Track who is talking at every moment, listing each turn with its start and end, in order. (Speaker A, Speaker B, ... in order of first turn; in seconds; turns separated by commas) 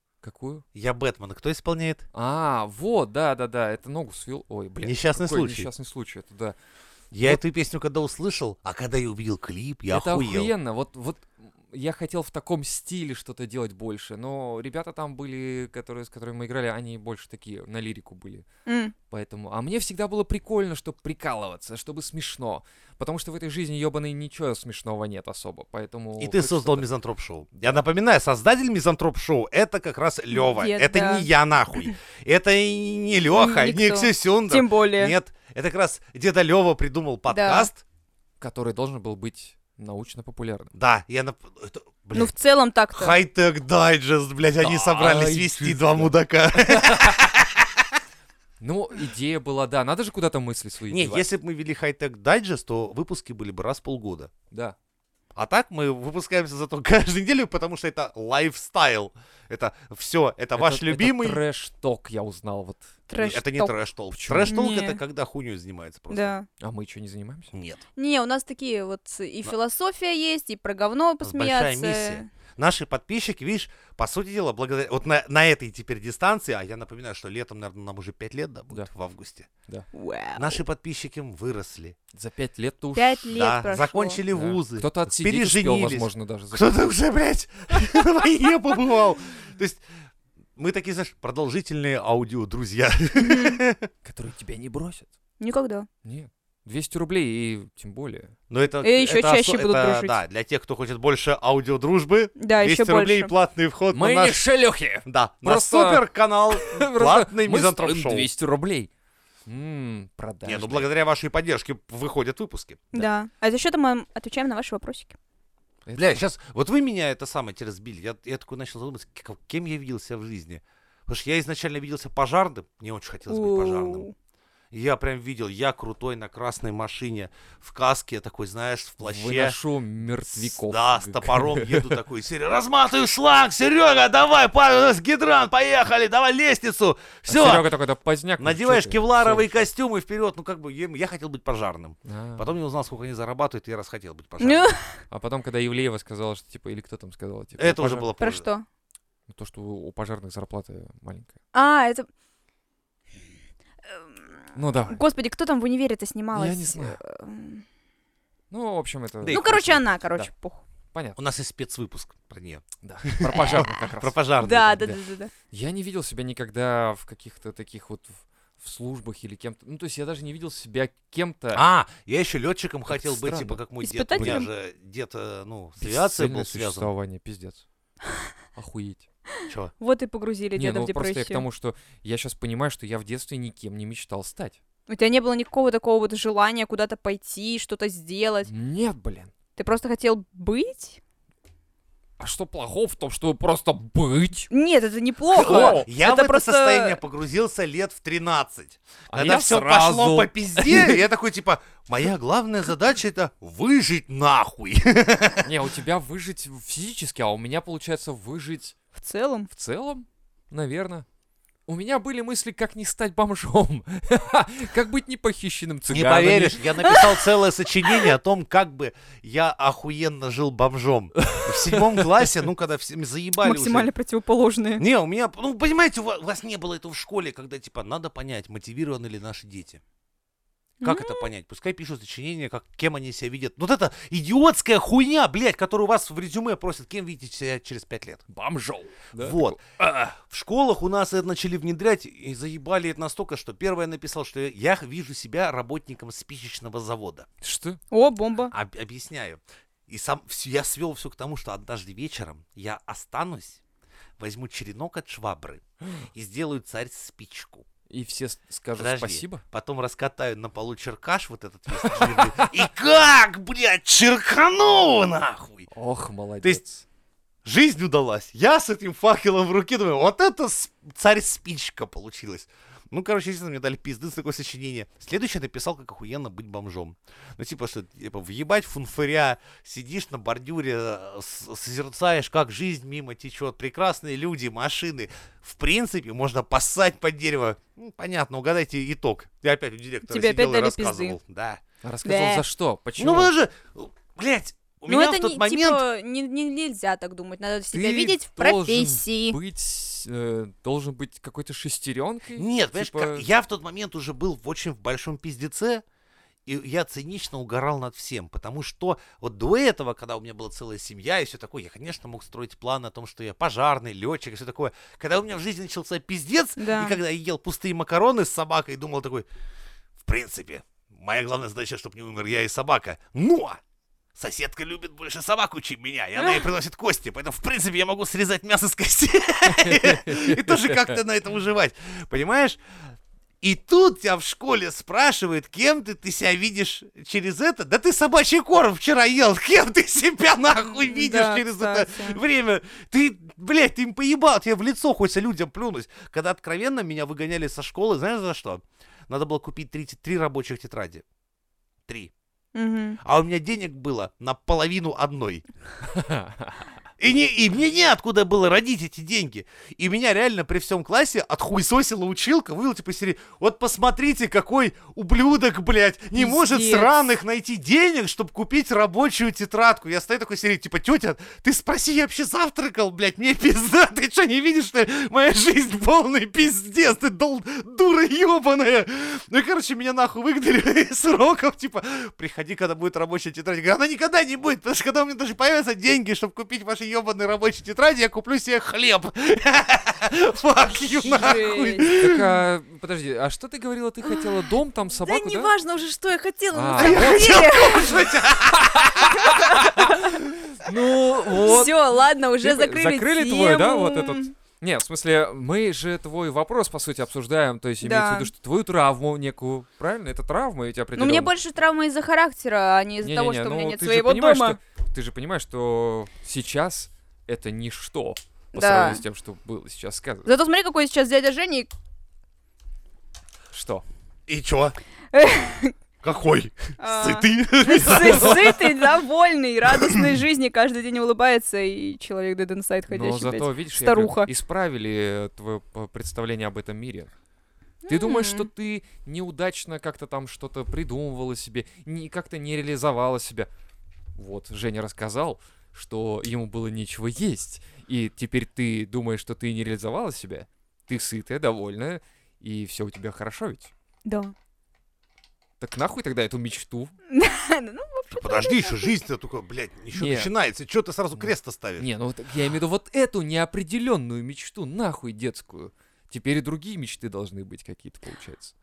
Speaker A: 0.2-0.6, Speaker B: 0.7-2.0, Speaker A: 2.1-6.5, Speaker B: 4.8-5.7, Speaker B: 7.1-10.5, Speaker A: 9.9-18.4, Speaker C: 18.6-18.9, Speaker A: 19.1-26.9, Speaker B: 26.2-37.8, Speaker C: 30.3-31.9, Speaker C: 33.3-35.1, Speaker C: 37.3-37.7, Speaker A: 38.4-40.7, Speaker B: 40.7-42.3, Speaker C: 42.1-43.1, Speaker B: 42.9-47.8, Speaker A: 44.6-47.2, Speaker A: 48.6-51.2, Speaker B: 50.9-54.3, Speaker A: 54.5-54.8, Speaker B: 55.4-61.4, Speaker A: 60.6-63.0, Speaker C: 63.1-63.7, Speaker B: 63.1-66.3, Speaker A: 64.1-64.5, Speaker C: 64.4-65.0, Speaker C: 66.1-66.5, Speaker A: 66.6-67.5, Speaker B: 67.5-67.8, Speaker C: 68.0-72.3, Speaker B: 71.2-79.5, Speaker C: 79.9-80.6, Speaker B: 80.3-82.0, Speaker A: 82.1-83.3, Speaker C: 82.9-84.2, Speaker B: 83.3-89.8, Speaker A: 84.3-86.9, Speaker B: 90.6-93.9, Speaker C: 93.2-93.6, Speaker A: 94.0-95.1, Speaker C: 95.4-95.9, Speaker A: 96.0-98.3, Speaker B: 98.5-104.4, Speaker C: 98.8-100.2, Speaker C: 102.4-103.3, Speaker A: 103.9-108.9, Speaker B: 105.0-108.3, Speaker A: 109.5-110.9, Speaker B: 110.4-112.9, Speaker C: 112.9-115.2, Speaker A: 115.8-116.2, Speaker B: 115.9-124.1, Speaker C: 123.3-124.1, Speaker B: 124.7-129.6, Speaker A: 129.0-132.0, Speaker B: 130.3-137.7, Speaker A: 137.3-139.7, Speaker B: 138.4-144.7, Speaker A: 142.0-142.5, Speaker C: 144.4-145.0, Speaker A: 145.1-148.1, Speaker B: 147.6-148.4, Speaker C: 148.2-148.6, Speaker A: 149.3-151.3, Speaker C: 151.5-152.1, Speaker C: 153.9-154.2, Speaker A: 154.5-155.0, Speaker C: 154.9-157.6, Speaker A: 156.3-157.0, Speaker A: 158.5-160.3, Speaker B: 159.2-159.5, Speaker C: 159.3-160.6, Speaker B: 161.2-164.9, Speaker A: 162.8-164.2, Speaker C: 164.4-165.3, Speaker A: 165.5-171.6, Speaker B: 171.5-176.9, Speaker A: 172.9-173.6, Speaker C: 173.8-174.5, Speaker A: 174.1-174.4, Speaker A: 175.8-177.6, Speaker A: 178.5-179.1, Speaker B: 179.5-179.7, Speaker C: 179.8-181.4, Speaker A: 180.6-184.6, Speaker C: 184.9-188.5, Speaker A: 188.4-189.3, Speaker C: 189.6-191.0, Speaker A: 192.2-194.5, Speaker C: 194.5-197.0, Speaker B: 195.3-205.5, Speaker A: 195.3-195.8, Speaker A: 199.1-201.0, Speaker A: 205.4-208.7, Speaker C: 208.9-209.5, Speaker A: 209.5-211.1, Speaker A: 211.7-216.6, Speaker B: 215.9-223.9, Speaker C: 216.8-217.3, Speaker A: 221.2-222.4, Speaker C: 223.4-224.8, Speaker B: 224.8-229.8, Speaker C: 230.8-231.3, Speaker B: 230.8-238.2, Speaker A: 238.3-240.2, Speaker B: 239.2-239.6, Speaker B: 240.2-247.3, Speaker A: 247.4-247.8, Speaker C: 247.9-248.5, Speaker B: 248.5-253.6, Speaker B: 254.2-257.6, Speaker A: 257.9-259.4, Speaker B: 258.8-265.7, Speaker A: 261.8-262.6, Speaker A: 265.7-266.8, Speaker B: 267.4-291.6, Speaker C: 290.1-291.2, Speaker A: 291.8-293.3, Speaker C: 292.0-292.4, Speaker B: 293.0-295.8, Speaker C: 294.9-299.4, Speaker A: 297.7-303.2, Speaker B: 302.4-305.8, Speaker B: 306.4-319.3, Speaker C: 316.6-317.0, Speaker B: 320.0-323.6, Speaker B: 324.1-332.6, Speaker C: 326.2-326.4, Speaker A: 329.5-331.0, Speaker B: 333.4-351.0, Speaker C: 340.7-342.2, Speaker B: 351.9-352.1, Speaker C: 352.5-353.0, Speaker B: 353.0-355.4, Speaker A: 355.9-356.6, Speaker B: 357.0-392.3, Speaker C: 366.1-367.0, Speaker C: 391.0-391.9, Speaker A: 392.0-395.5, Speaker C: 394.0-394.5, Speaker C: 395.0-398.1, Speaker A: 396.5-397.6, Speaker B: 396.8-399.6, Speaker A: 398.5-401.8, Speaker C: 399.1-400.1, Speaker C: 401.3-404.3, Speaker A: 402.4-411.3, Speaker C: 407.8-408.3, Speaker C: 410.9-414.6, Speaker A: 413.0-420.3, Speaker C: 418.5-419.0, Speaker C: 420.2-421.7, Speaker A: 423.5-423.8, Speaker B: 424.3-424.8, Speaker C: 425.1-425.7, Speaker B: 426.0-428.7, Speaker C: 426.8-434.3, Speaker A: 427.9-428.5, Speaker A: 432.9-437.1, Speaker C: 437.8-438.5, Speaker A: 437.9-443.5, Speaker A: 444.1-453.7, Speaker C: 454.0-454.3, Speaker A: 455.6-456.9, Speaker C: 457.1-458.9, Speaker B: 458.1-461.9, Speaker A: 459.9-460.3, Speaker A: 461.1-468.5